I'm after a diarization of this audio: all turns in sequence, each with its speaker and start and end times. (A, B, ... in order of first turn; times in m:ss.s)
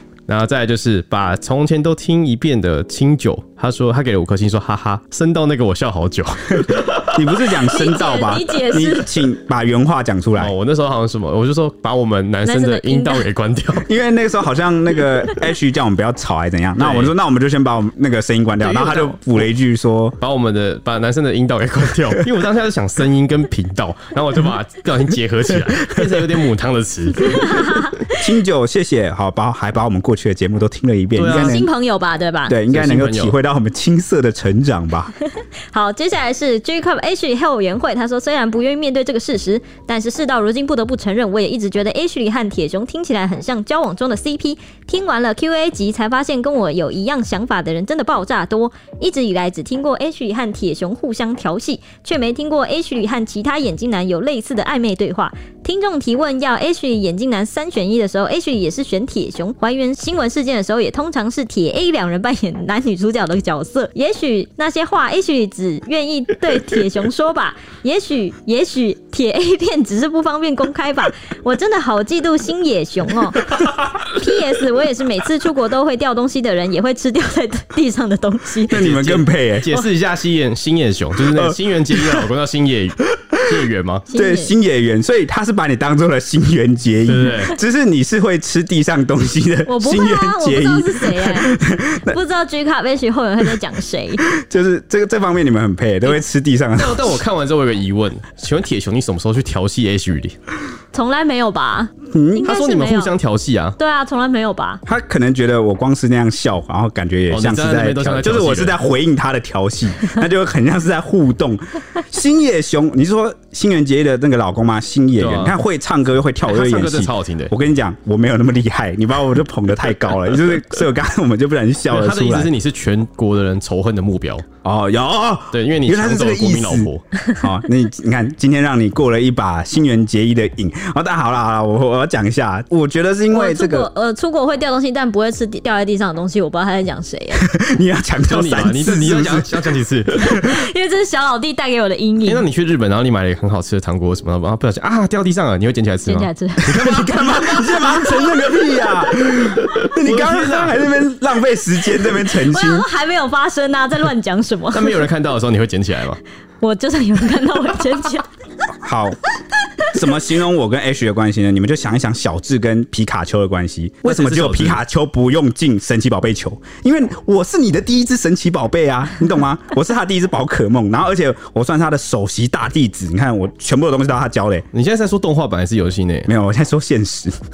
0:00.3-0:07.2 A
0:06.5-0:10.5 B
0:07.6-0:09.1 C
0:10.4-0:13.9 A
0:12.4-0:13.2 C
0:13.8-0:20.2 B
0:16.8-0:17.1 A
0:18.6-0:19.4 A
0:20.2-0:27.8 A
0:25.9-0:26.2 B
0:27.2-0:28.2 C
0:28.1-0:31.7 B
0:31.2-0:31.6 A
0:31.3-0:32.6 C
0:32.5-0:35.1 B
0:32.7-0:33.3 A
0:35.7-1:13.5 C
1:14.0-1:18.8 C
1:18.7-1:19.7 B
1:18.7-1:24.0 A
1:21.3-1:22.3 B
1:23.3-1:23.6 B
1:24.1-1:24.5 C
1:24.1-1:32.2 B
1:27.0-1:27.6 A
1:29.6-1:34.2 C
1:34.3-1:37.2 B
1:36.8-1:40.3 A
1:40.9-1:43.1 C
1:42.1-1:42.5 B
1:42.4-1:43.8 A
1:43.8-1:44.8 C
1:44.8-2:02.5 B
1:47.3-1:48.8 A
1:55.2-1:55.6 A
1:56.4-1:57.5 A
2:01.9-2:04.4 A
2:04.6-2:13.9 B
2:05.5-2:07.0 A
2:13.3-2:17.5 C
2:17.4-2:19.5 B
2:18.3-2:20.5 A
2:20.2-2:22.4 C
2:22.3-2:28.6 A
2:26.0-2:26.9 C
2:26.6-2:32.9 B
2:29.4-2:30.9 A
2:32.2-2:35.0 C
2:34.7-2:36.2 A
2:36.6-2:38.2 C
2:38.8-2:39.2 B
2:39.9-2:54.7 B
2:44.0-2:44.8 A
2:54.7-2:56.3 A
2:56.3-2:57.4 B